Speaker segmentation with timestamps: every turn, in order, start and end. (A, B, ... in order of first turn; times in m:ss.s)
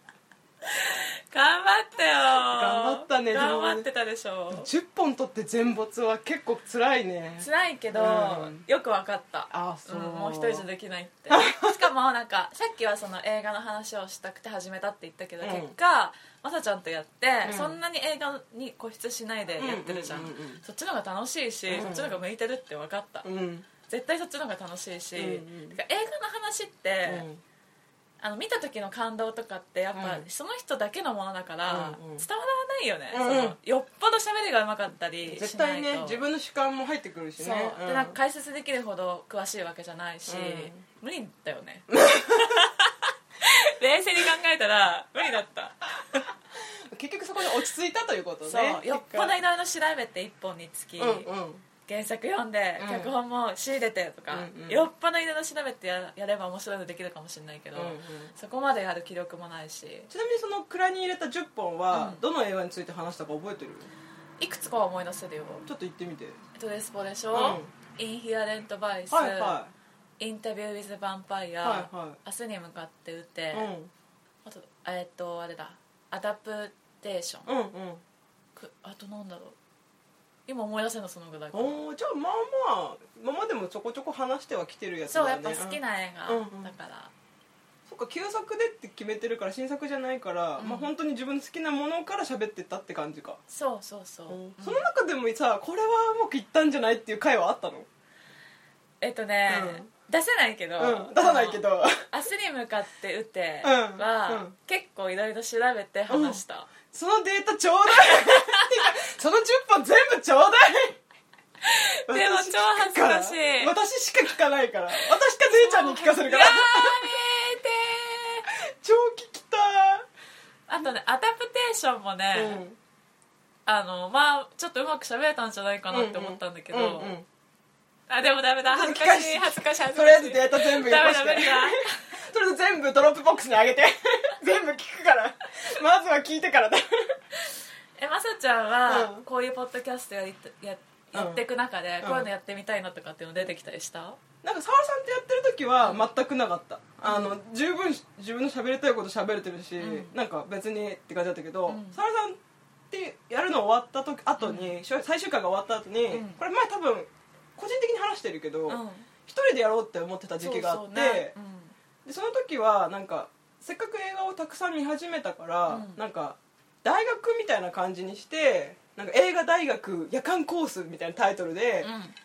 0:00.7-0:04.7 A
0:02.4-0:03.9 B
0:04.5-0:08.6 B
0:07.4-0:23.3 A
0:09.5-0:10.6 B
0:11.3-0:11.8 B
0:15.4-0:15.8 B
0:17.4-0:17.8 B
0:19.6-0:20.6 B
0:21.7-0:22.2 B
0:23.2-0:23.7 B
0:23.8-0:27.3 A
0:25.2-0:25.8 B
0:27.1-0:27.4 B
0:28.2-0:36.2 A
0:30.0-0:30.3 B
0:31.7-0:32.3 B
0:33.1-0:33.6 B
0:35.3-0:38.2 B
0:37.4-0:46.3 A
0:40.3-0:40.8 B
0:41.9-0:42.6 B
0:46.9-0:49.4 B
0:48.4-0:51.3 A
0:51.0-0:51.6 B
0:51.9-1:00.1 A
0:52.8-0:53.1 B
0:54.3-0:54.8 B
0:57.8-0:58.3 B
1:00.1-1:03.9 B
1:01.9-1:02.2 A
1:04.4-1:05.7 A
1:05.7-1:06.4 B
1:06.6-1:09.6 A
1:07.3-1:07.7 B
1:09.1-1:09.7 B
1:10.2-1:13.7 A
1:11.6-1:12.2 B
1:13.5-1:13.9 B
1:14.4-1:17.5 A
1:17.5-1:18.0 B
1:18.6-1:19.6 A
1:20.5-1:21.8 A
1:21.5-1:26.7 B
1:25.1-1:27.1 A
1:27.9-1:33.4 B
1:30.6-1:30.9 A
1:33.5-1:34.9 A
1:34.3-1:37.9 B
1:39.0-1:46.7 A
1:39.5-1:39.9 B
1:40.8-1:42.0 B
1:43.6-1:44.5 B
1:46.1-1:51.0 B
1:48.0-1:48.9 A
1:51.6-1:53.7 A
1:52.1-1:57.2 B
1:55.5-1:58.5 A
1:58.8-2:00.1 B
2:00.7-2:02.6 A
2:02.3-2:02.8 B
2:03.7-2:07.2 A
2:05.9-2:07.3 B
2:08.1-2:12.1 A
2:08.7-2:17.1 B
2:17.5-2:24.2 A
2:18.9-2:19.2 B
2:21.1-2:21.4 B
2:22.0-2:22.3 B
2:24.4-2:32.4 B
2:27.0-2:27.4 A
2:29.8-2:30.1 A
2:31.7-2:32.0 A
2:32.9-2:41.4 B
2:34.4-2:34.8 A
2:36.1-2:36.4 A
2:38.7-2:39.1 A
2:40.4-2:41.7 A
2:42.0-2:51.9 B
2:45.7-2:46.0 A
2:51.8-2:52.2 A